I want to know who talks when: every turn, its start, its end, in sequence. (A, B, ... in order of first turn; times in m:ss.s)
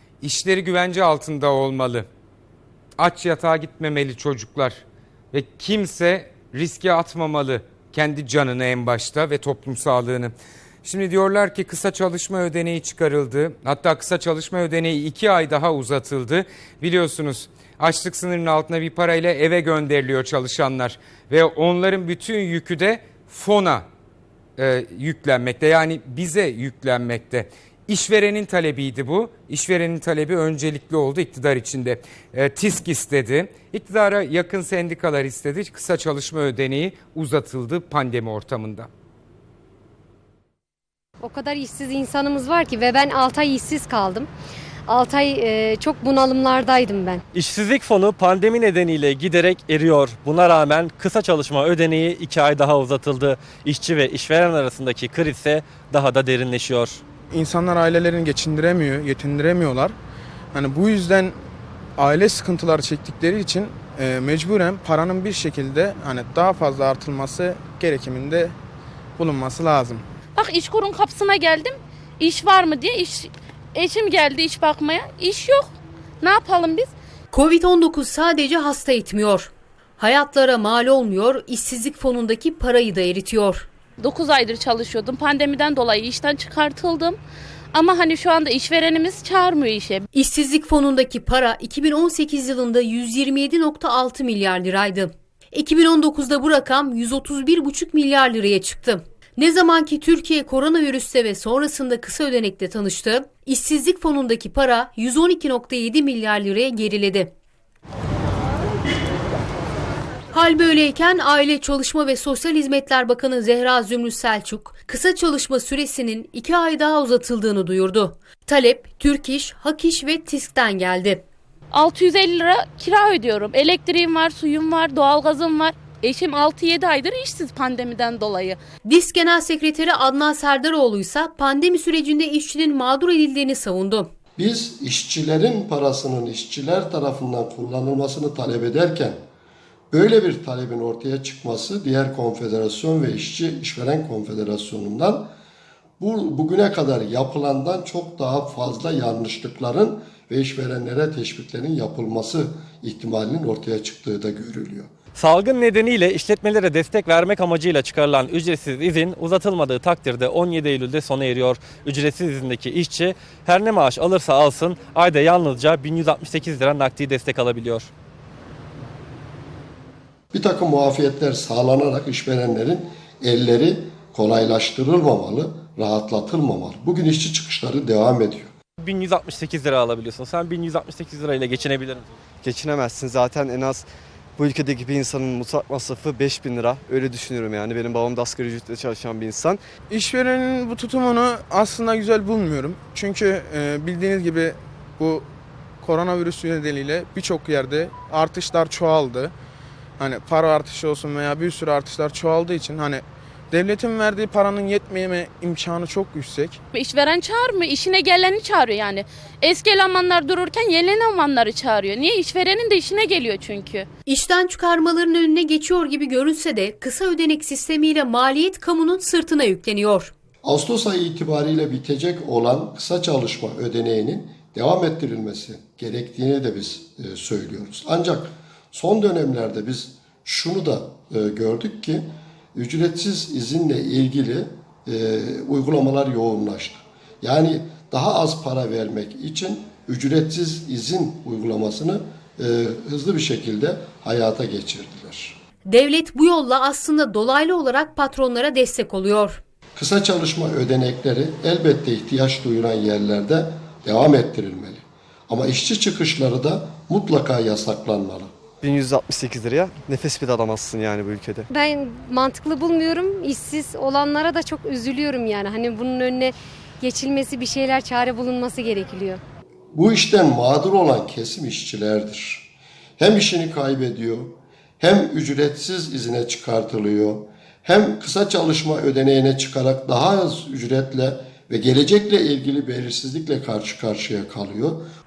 0:00.2-0:02.1 A
0:03.0-0:23.8 A
0:24.6-0:38.9 A
0:41.2-0:44.3 B
0:44.9-0:47.2 B
0:47.3-0:57.0 C
0:57.3-0:59.9 D
1:00.5-1:01.4 D
1:02.0-1:08.5 D
1:09.2-1:10.0 D
1:10.3-1:16.9 E
1:17.3-1:23.7 F
1:24.0-1:27.2 E
1:27.7-1:30.0 E
1:30.1-1:47.3 F
1:50.3-2:01.2 F
2:01.7-2:08.6 E
2:08.8-2:14.1 F
2:14.4-2:19.2 G
2:19.9-2:25.3 G
2:26.0-2:34.9 G
2:35.2-2:47.9 C
2:50.3-2:58.5 G
2:58.8-3:02.1 C
3:02.4-3:03.8 H
3:04.4-3:09.6 H
3:09.9-3:15.2 D
3:15.8-3:19.3 D
3:20.0-3:26.6 D
3:26.7-3:33.9 E
3:34.0-3:40.1 F
3:40.4-4:05.4 G
4:05.6-4:09.4 F
4:09.8-4:18.3 G
4:18.6-4:21.5 H
4:21.5-4:29.2 B
4:29.7-4:44.8 G